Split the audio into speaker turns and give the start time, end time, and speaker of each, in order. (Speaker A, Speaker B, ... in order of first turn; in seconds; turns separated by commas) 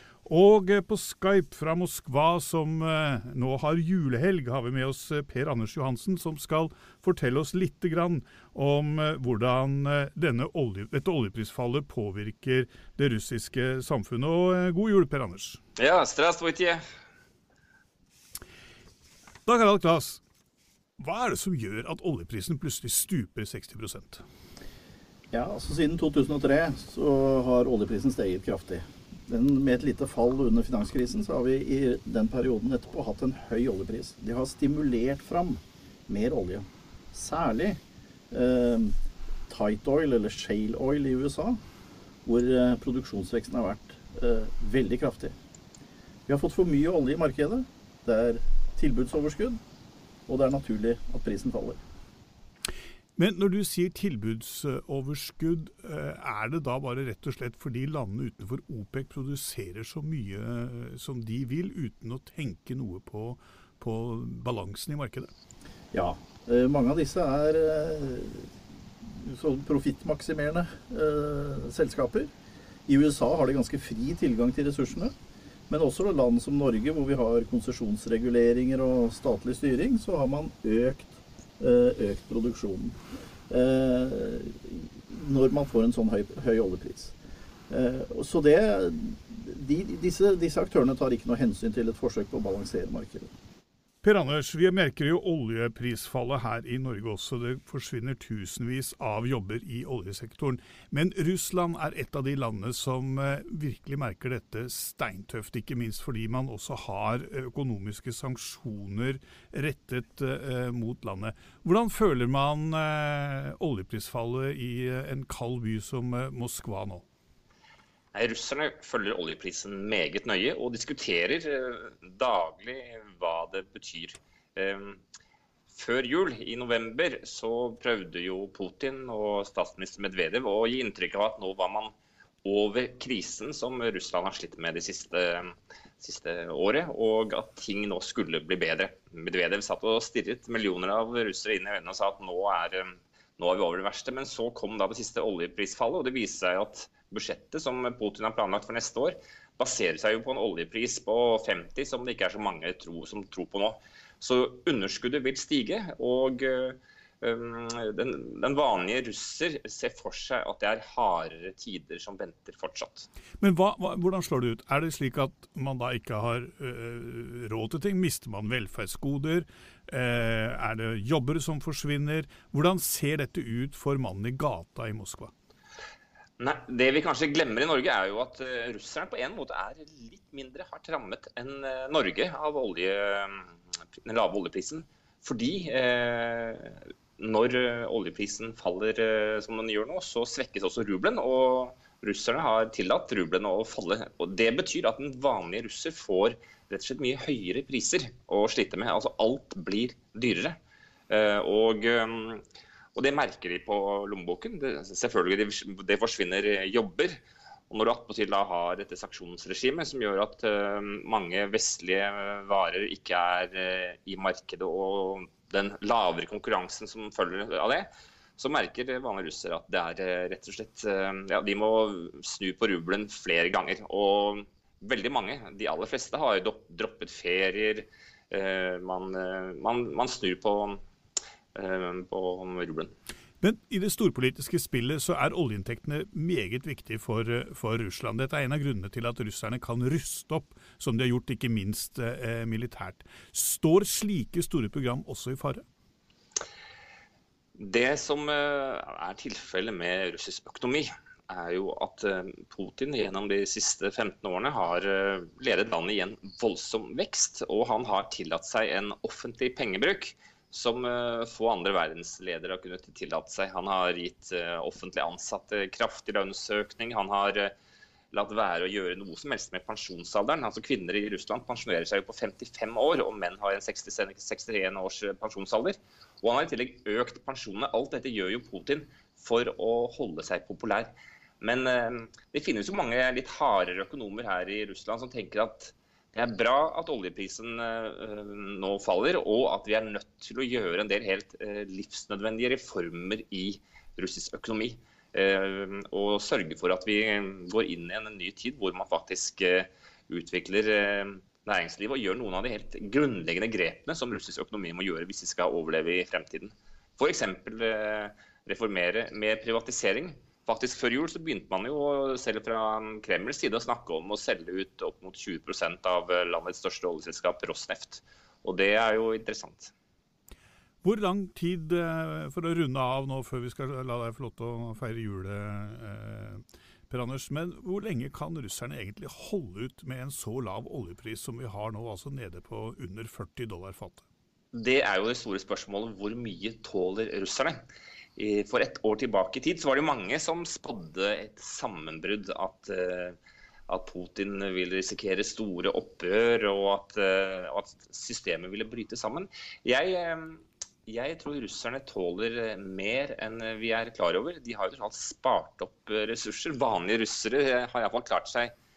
Speaker A: 0.2-15.6, Speaker B: 15.8-16.8, Speaker A: 19.4-20.2, Speaker A: 21.0-24.2, Speaker C: 25.3-37.8, Speaker C: 38.3-39.0, Speaker C: 39.5-41.6, Speaker C: 42.2-45.4, Speaker C: 46.3-49.6, Speaker C: 50.3-51.8, Speaker A: 53.1-65.3, Speaker C: 65.9-68.5, Speaker C: 69.0-72.3, Speaker C: 72.9-75.1, Speaker C: 75.7-83.0, Speaker C: 83.5-87.2, Speaker C: 87.7-93.3, Speaker A: 94.0-117.0, Speaker B: 118.1-125.0, Speaker B: 125.7-131.9, Speaker B: 132.4-163.1, Speaker A: 163.4-175.3, Speaker B: 176.4-183.4, Speaker B: 184.0-200.5, Speaker B: 201.1-202.4, Speaker B: 202.9-207.2, Speaker B: 207.7-230.8, Speaker B: 231.6-232.9, Speaker A: 233.4-245.6, Speaker B: 247.6-267.5, Speaker B: 268.1-319.7, Speaker A: 320.8-334.0, Speaker B: 334.5-337.6, Speaker B: 338.2-343.1, Speaker B: 343.7-358.5